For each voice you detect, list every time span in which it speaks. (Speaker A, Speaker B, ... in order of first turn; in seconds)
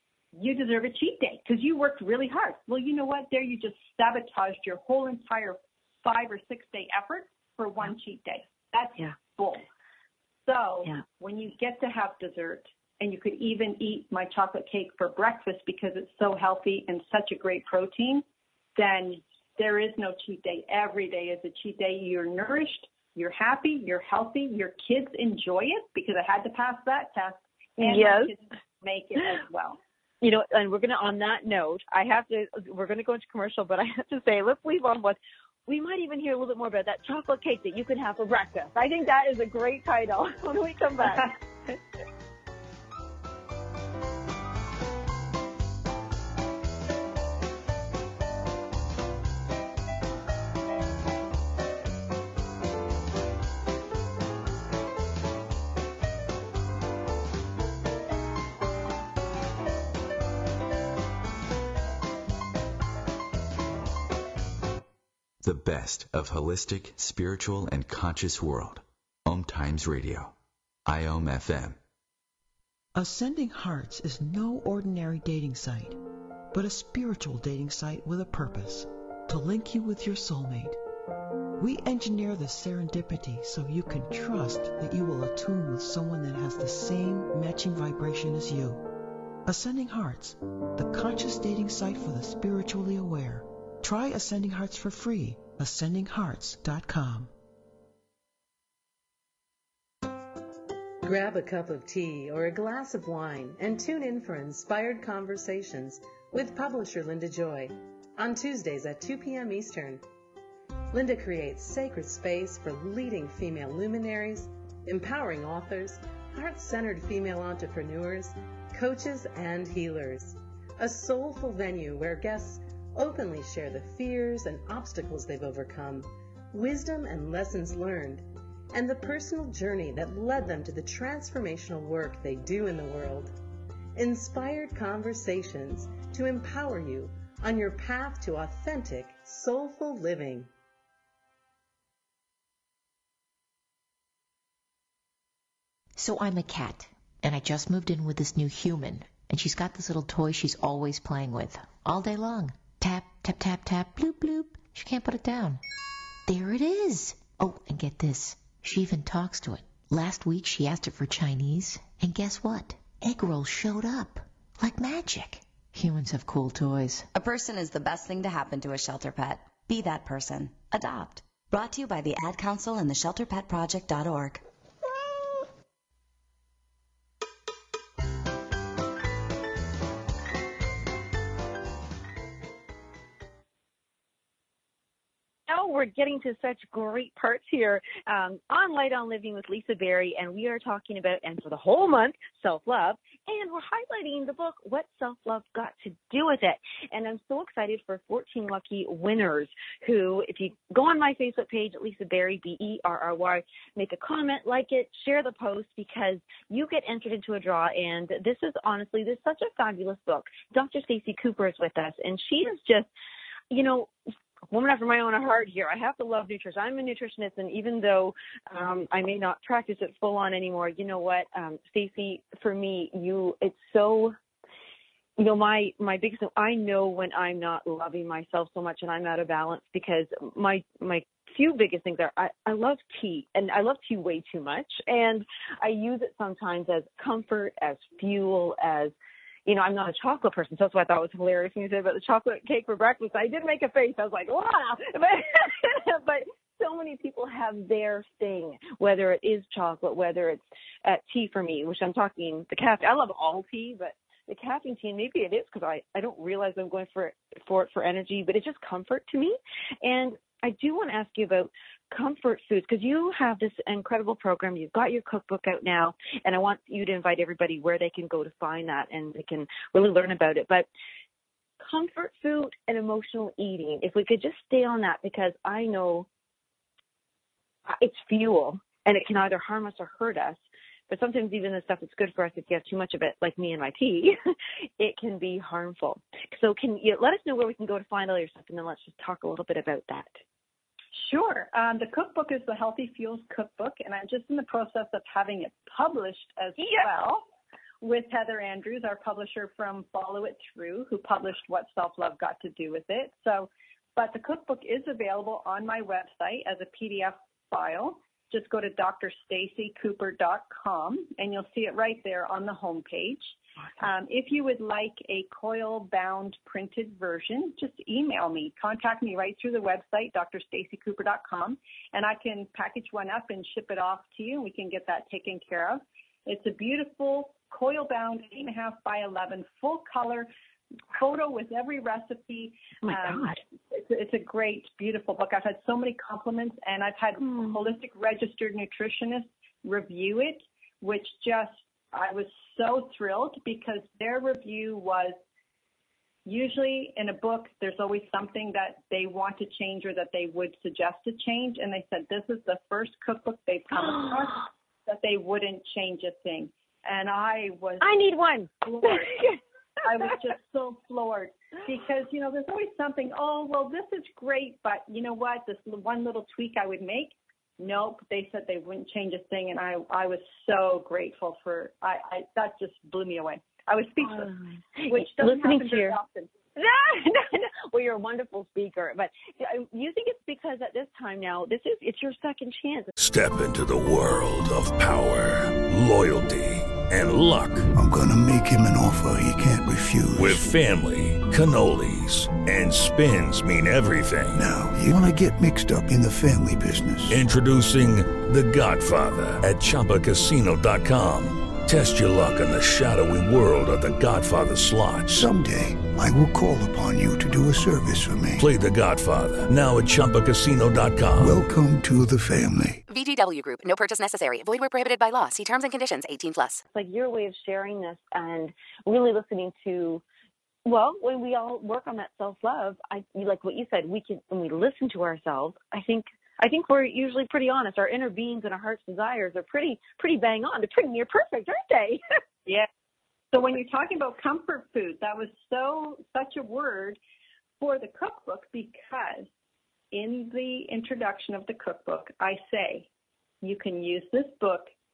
Speaker A: 0.3-9.6, 10.4-18.2, 18.8-29.8, 41.0-41.8, 290.9-297.2, 297.8-330.3, 330.9-345.1, 346.2-357.9, 358.6-359.3, 359.8-374.3, 374.9-376.3, 433.3-437.0, 437.6-439.3, 439.9-442.9, 443.4-444.7
Speaker B: 27.8-28.3, 30.2-41.3, 185.5-212.9, 213.5-213.9, 214.5-224.1, 225.2-238.9, 239.4-270.7, 271.6-276.1, 277.7-284.1, 284.8-290.2, 296.6-296.9, 332.8-333.4, 337.2-337.6, 353.8-354.3, 357.8-359.4, 374.0-376.0, 376.6-382.9, 416.7-420.0, 420.6-432.0
Speaker C: 65.4-70.3, 70.8-71.8
Speaker D: 72.9-76.0, 76.5-80.8, 81.6-88.9, 89.5-97.3
Speaker E: 101.0-110.0, 110.9-133.3, 133.9-140.5
Speaker F: 145.9-155.6, 156.3-167.1
Speaker G: 167.1-174.4
Speaker H: 383.0-387.7, 390.1-394.5, 397.1-405.2, 408.4-411.4
Speaker I: 387.7-390.5, 394.3-397.2, 405.1-408.4, 411.2-412.8
Speaker J: 412.9-416.6